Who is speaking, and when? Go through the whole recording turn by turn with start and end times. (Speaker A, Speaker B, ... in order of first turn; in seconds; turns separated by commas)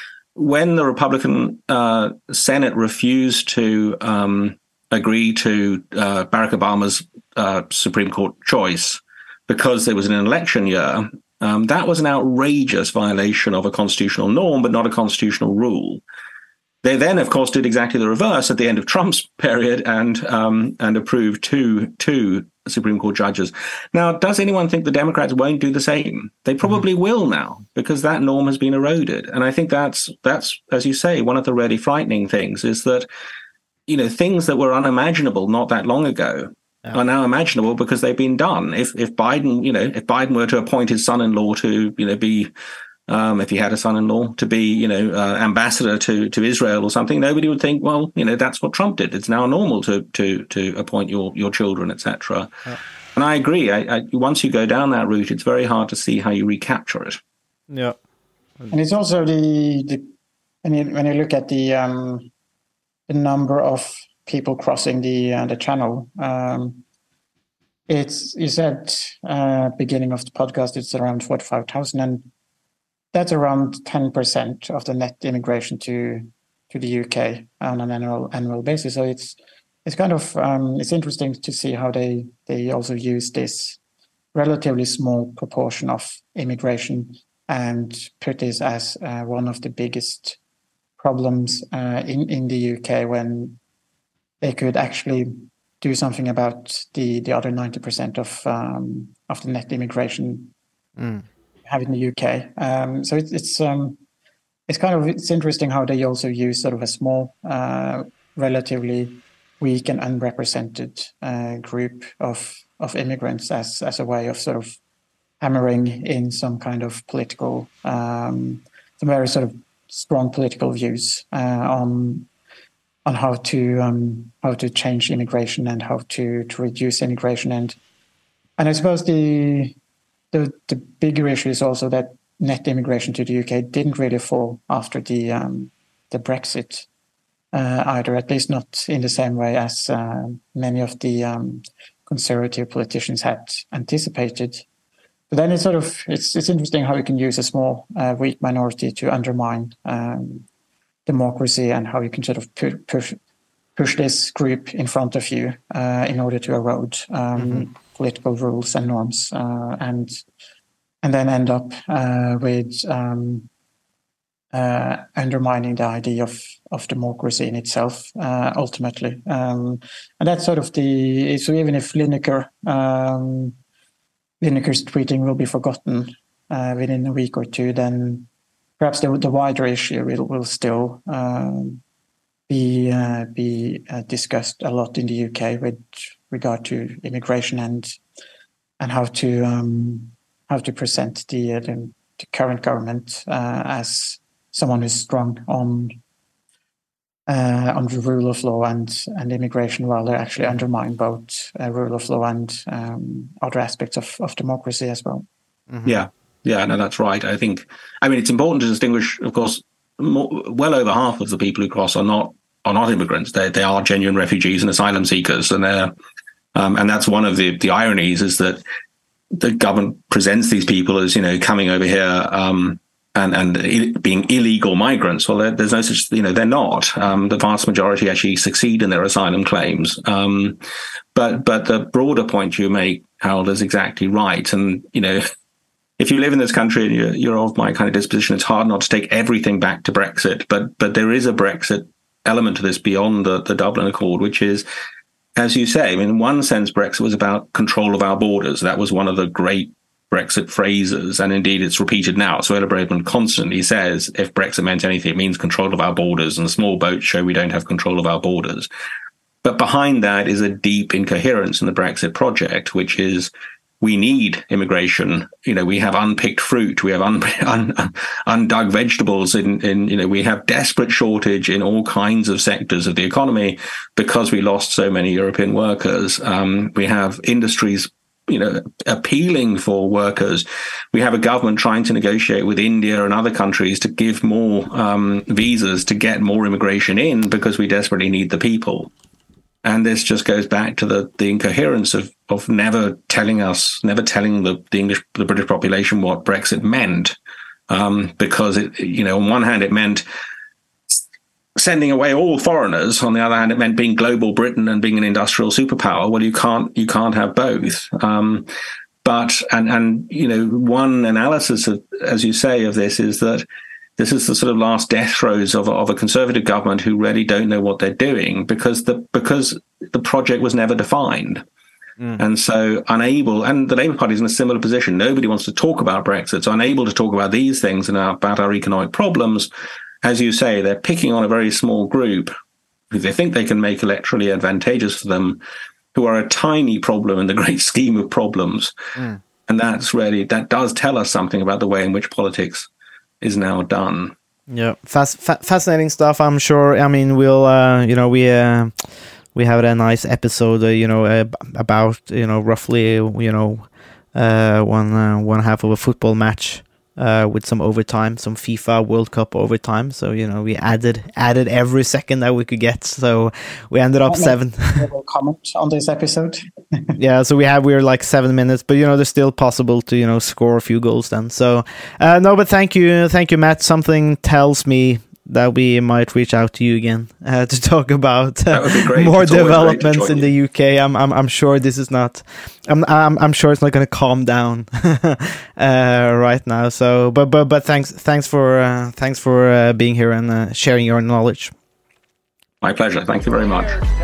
Speaker A: 0.3-16.0, Speaker A: 16.8-33.1, Speaker A: 33.9-42.5, Speaker A: 43.1-52.5, Speaker A: 53.1-57.2, Speaker B: 57.7-58.0, Speaker C: 58.7-60.1, Speaker C: 60.6-62.3, Speaker C: 63.1-66.8, Speaker C: 67.9-72.3, Speaker C: 73.1-83.8, Speaker C: 84.3-90.4, Speaker C: 91.0-93.6, Speaker C: 94.4-100.5, Speaker B: 101.0-101.2, Speaker C: 101.7-104.0, Speaker C: 104.7-114.8, Speaker C: 115.4-122.3, Speaker C: 123.1-127.8, Speaker C: 128.6-129.8, Speaker C: 130.3-136.9, Speaker C: 137.5-144.7, Speaker C: 145.3-150.5, Speaker C: 151.1-153.2, Speaker C: 153.8-160.2, Speaker B: 157.4-157.7, Speaker C: 161.0-163.5, Speaker C: 164.5-173.6, Speaker C: 174.4-178.3, Speaker C: 178.8-181.8, Speaker C: 182.5-188.0, Speaker C: 188.8-195.9, Speaker C: 197.3-205.2, Speaker B: 205.7-206.0, Speaker A: 205.8-215.9, Speaker A: 216.6-218.6, Speaker A: 219.3-230.6, Speaker A: 231.2-235.2, Speaker A: 236.0-244.7, Speaker A: 245.4-258.7, Speaker A: 259.4-288.9, Speaker A: 289.6-297.2, Speaker A: 297.7-300.0, Speaker A: 301.6-308.5, Speaker A: 309.0-313.4, Speaker A: 314.0-321.4, Speaker A: 322.2-329.5, Speaker A: 330.0-332.3, Speaker A: 332.9-335.4, Speaker A: 335.9-338.7, Speaker B: 339.0-339.2, Speaker A: 339.5-342.7, Speaker A: 343.2-344.1, Speaker B: 344.5-348.8, Speaker B: 349.3-364.9, Speaker C: 364.1-367.0, Speaker B: 367.0-391.5, Speaker A: 378.5-380.3, Speaker A: 392.6-393.8